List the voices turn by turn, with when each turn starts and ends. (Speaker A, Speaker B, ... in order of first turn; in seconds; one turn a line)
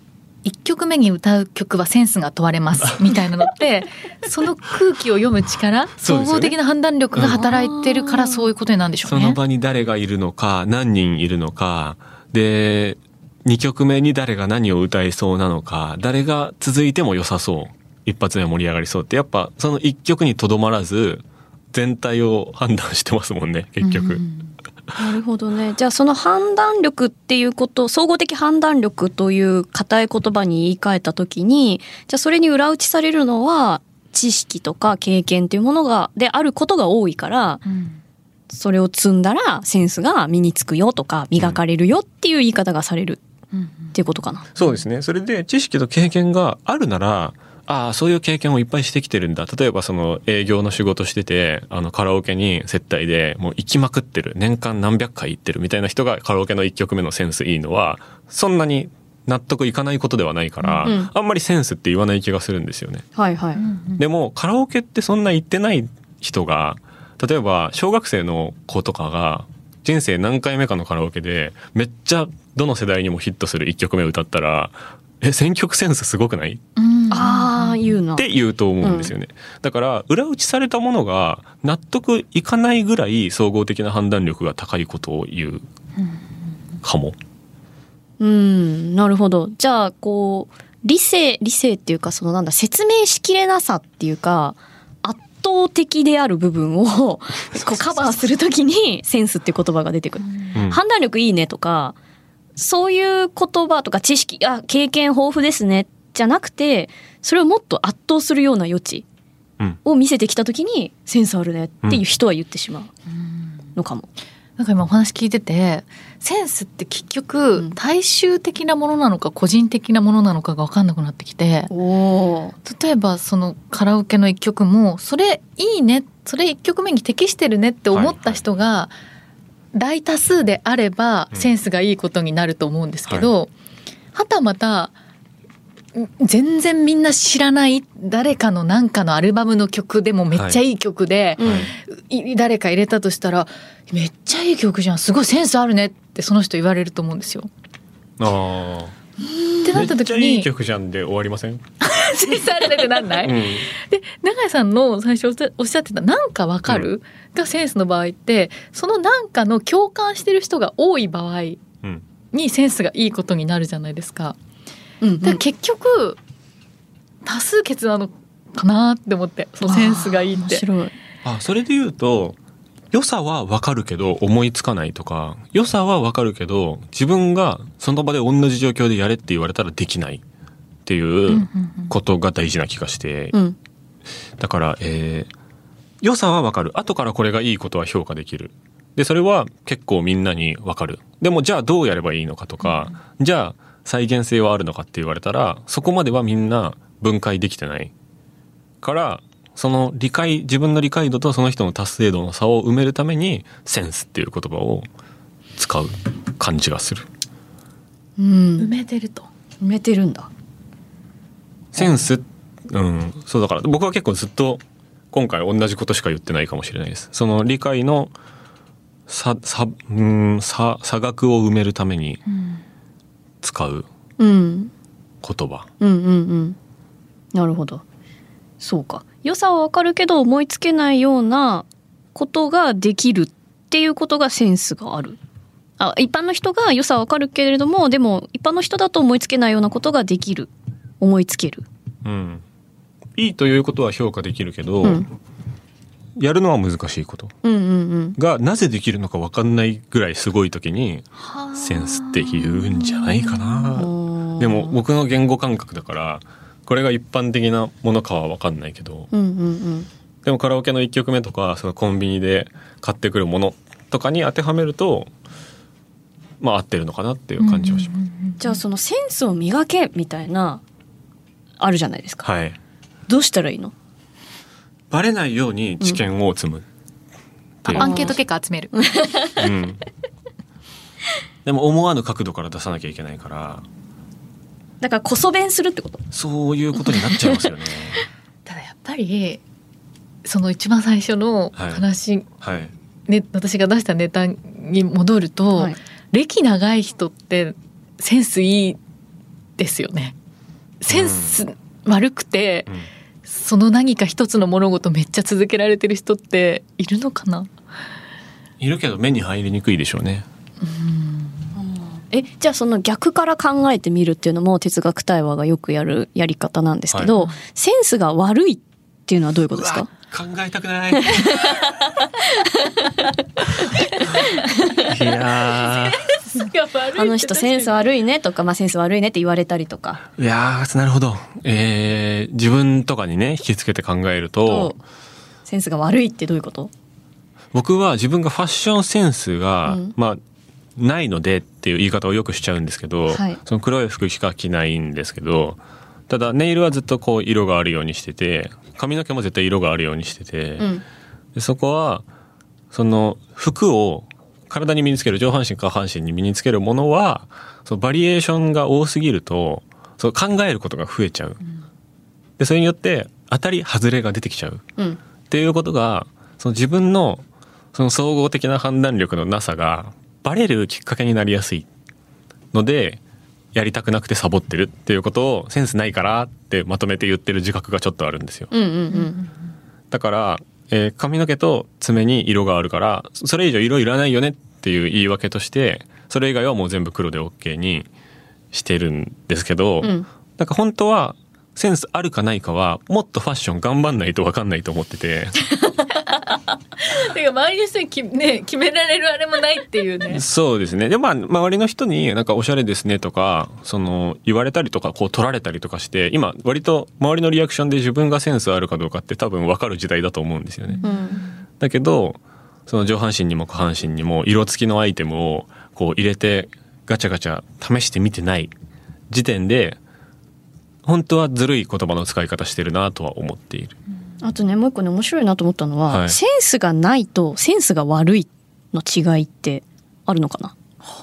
Speaker A: 0.4-9.4
Speaker B: 6.0-6.5
Speaker B: 7.2-7.5
Speaker C: 7.2-8.5
Speaker B: 9.0-24.2
Speaker A: 23.8-24.5
Speaker C: 25.0-37.6
Speaker A: 37.7-38.0
Speaker C: 38.5-43.2
Speaker A: 43.5-44.0
Speaker C: 43.9-44.5
Speaker B: 44.5-63.0
Speaker A: 60.6-60.9
Speaker C: 60.8-61.1
Speaker C: 63.1-63.6
Speaker A: 63.6-64.0
Speaker B: 64.0-76.6
Speaker A: 76.8-78.0
Speaker C: 77.1-78.3
Speaker B: 78.2-85.7
Speaker C: 78.8-79.1
Speaker B: 86.8-87.2
Speaker C: 88.2-102.0
Speaker B: 97.5-98.2
Speaker B: 100.5-100.8
Speaker C: 102.6-109.0
Speaker C: 109.8-112.9
Speaker C: 113.8-114.1
Speaker A: 114.6-121.7
Speaker C: 121.7-122.6
Speaker A: 122.6-128.9
Speaker B: 127.9-128.4
Speaker A: 129.7-133.5
Speaker A: 134.1-134.9
Speaker A: 135.9-147.5
Speaker B: 140.3-140.6
Speaker C: 141.4-141.7
Speaker B: 141.4-141.7
Speaker B: 148.2-148.9
Speaker A: 149.6-150.5
Speaker B: 149.7-151.6
Speaker A: 151.8-161.6
Speaker B: 153.2-153.7
Speaker A: 162.3-164.4
Speaker C: 165.0-165.4
Speaker A: 165.2-166.2
Speaker A: 167.2-170.7
Speaker C: 169.6-170.9
Speaker B: 171.2-172.4
Speaker B: 172.9-180.2
Speaker B: 180.8-183.4
Speaker A: 181.3-181.9
Speaker B: 184.4-185.3
Speaker B: 186.0-197.9
Speaker B: 198.8-204.9
Speaker B: 205.6-207.1
Speaker C: 208.2-208.7
Speaker A: 208.6-209.3
Speaker C: 209.6-210.3
Speaker B: 211.7-218.1
Speaker B: 219.1-222.2
Speaker A: 222.3-222.6
Speaker B: 223.4-223.9
Speaker C: 224.2-224.7
Speaker B: 225.2-225.7
Speaker C: 225.8-226.6
Speaker C: 227.3-227.8
Speaker C: 228.6-235.2
Speaker C: 235.8-241.7
Speaker B: 242.0-242.4
Speaker B: 243.2-245.1
Speaker B: 246.2-247.3
Speaker C: 247.4-248.2
Speaker B: 248.2-259.1
Speaker A: 251.2-253.8
Speaker C: 253.7-254.7
Speaker C: 259.1-259.9
Speaker B: 260.2-265.1
Speaker B: 266.4-267.9
Speaker A: 267.4-268.6
Speaker C: 268.4-270.6
Speaker C: 271.6-272.3
Speaker B: 272.2-272.6
Speaker C: 273.1-273.7
Speaker B: 274.9-276.6
Speaker B: 277.6-278.1
Speaker C: 277.7-278.2
Speaker A: 277.7-279.1
Speaker C: 278.7-279.4
Speaker B: 279.4-279.8
Speaker B: 281.4-283.6
Speaker C: 284.8-286.1
Speaker B: 286.1-288.1
Speaker C: 286.8-287.4
Speaker A: 288.5-289.4
Speaker A: 290.2-292.3
Speaker B: 291.6-291.8
Speaker B: 292.4-292.7
Speaker A: 293.1-298.8
Speaker A: 299.6-300.1
Speaker A: 300.8-302.7
Speaker B: 300.9-301.4
Speaker A: 303.2-307.5
Speaker B: 308.6-310.2
Speaker A: 310.6-311.6
Speaker C: 311.6-319.9
Speaker B: 319.5-321.6
Speaker C: 320.9-323.2
Speaker A: 323.8-324.4
Speaker C: 324.3-324.9
Speaker B: 324.9-326.0
Speaker A: 325.6-327.8
Speaker C: 326.9-330.1
Speaker B: 330.2-334.7
Speaker C: 334.4-334.8
Speaker C: 335.4-336.7
Speaker B: 337.5-340.2
Speaker C: 339.7-339.9
Speaker B: 340.8-350.7
Speaker C: 343.1-343.4
Speaker B: 351.3-352.1
Speaker B: 352.7-361.4
Speaker B: 362.4-364.7
Speaker B: 365.3-371.7
Speaker B: 372.5-373.0
Speaker B: 373.5-378.5
Speaker C: 378.5-379.2
Speaker B: 379.9-387.9
Speaker B: 388.5-395.4
Speaker A: 396.0-400.2
Speaker B: 400.1-410.9
Speaker C: 410.8-411.2
Speaker B: 411.6-418.5
Speaker B: 419.1-419.8
Speaker B: 420.8-423.8
Speaker C: 424.2-430.5
Speaker B: 425.9-426.2